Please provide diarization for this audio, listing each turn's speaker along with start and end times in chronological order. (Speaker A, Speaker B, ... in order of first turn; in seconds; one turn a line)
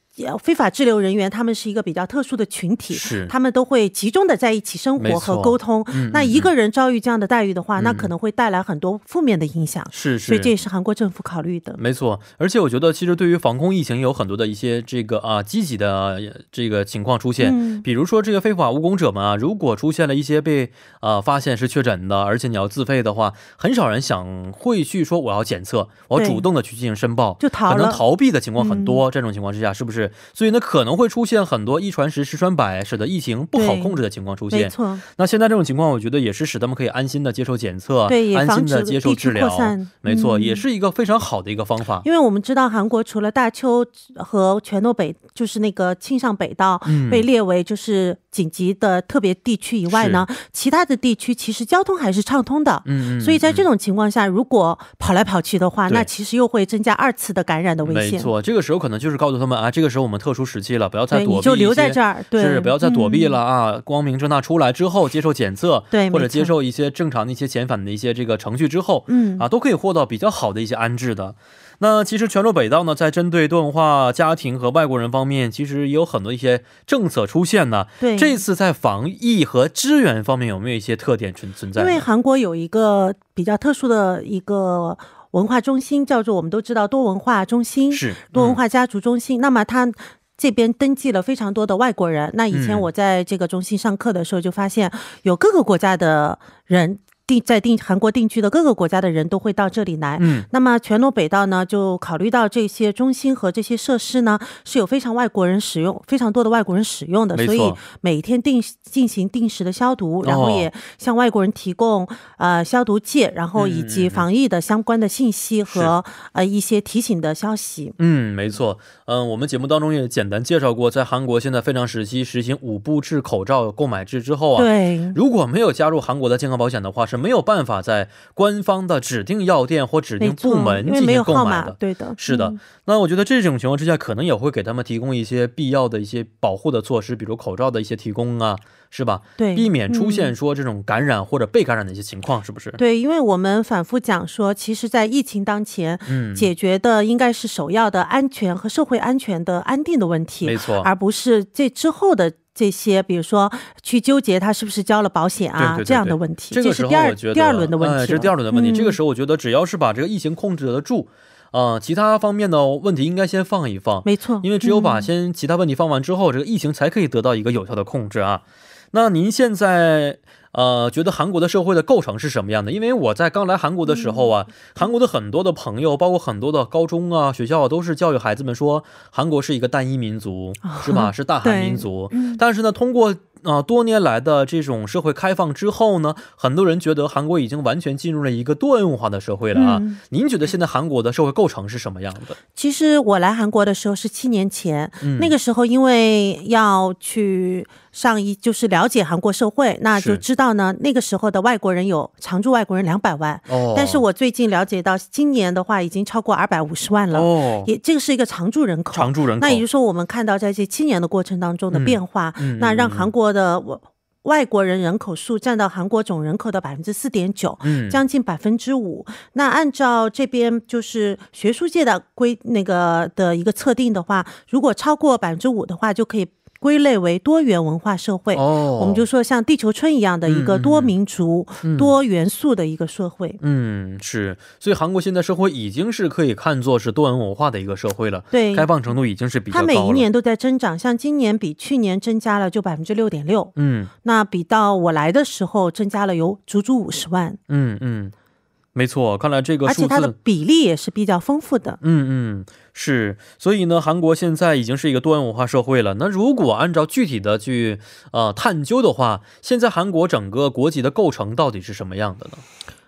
Speaker A: 0.2-11.8
Speaker B: 2.9-3.3
Speaker B: 5.0-6.5
Speaker B: 7.8-8.1
Speaker B: 9.9-10.5
Speaker B: 11.8-42.1
Speaker A: 17.4-17.9
Speaker A: 26.1-26.4
Speaker A: 27.4-28.0
Speaker A: 28.6-29.0
Speaker A: 33.5-34.0
Speaker A: 34.5-35.0
Speaker A: 38.1-40.6
Speaker A: 42.0-58.3
Speaker B: 46.9-47.3
Speaker B: 49.9-50.2
Speaker B: 52.9-53.6
Speaker B: 57.9-82.1
Speaker A: 61.1-63.4
Speaker A: 65.9-66.5
Speaker A: 69.1-69.5
Speaker A: 78.0-78.4
Speaker A: 81.8-118.0
Speaker B: 87.9-88.6
Speaker B: 92.5-92.9
Speaker B: 100.2-100.5
Speaker B: 107.3-107.8
Speaker B: 110.2-110.7
Speaker B: 113.5-114.3
Speaker B: 118.0-142.8
Speaker A: 124.6-125.2
Speaker A: 130.2-132.6
Speaker A: 139.4-140.3
Speaker A: 142.8-159.0
Speaker B: 146.1-146.5
Speaker B: 150.4-150.9
Speaker B: 155.6-192.4
Speaker A: 164.0-165.1
Speaker A: 173.9-174.3
Speaker A: 180.6-182.4
Speaker A: 189.5-190.0
Speaker A: 192.6-233.4
Speaker B: 195.0-195.3
Speaker B: 199.9-200.2
Speaker B: 203.5-204.0
Speaker B: 207.1-207.7
Speaker B: 208.9-209.6
Speaker B: 211.7-213.1
Speaker B: 217.6-218.0
Speaker B: 228.3-229.1
Speaker B: 230.3-230.9
Speaker B: 231.6-231.9
Speaker B: 233.4-240.1
Speaker A: 238.3-238.7
Speaker A: 239.5-247.4
Speaker B: 243.6-243.9
Speaker B: 247.5-248.1
Speaker B: 248.8-250.2
Speaker A: 249.7-251.8
Speaker B: 251.8-262.4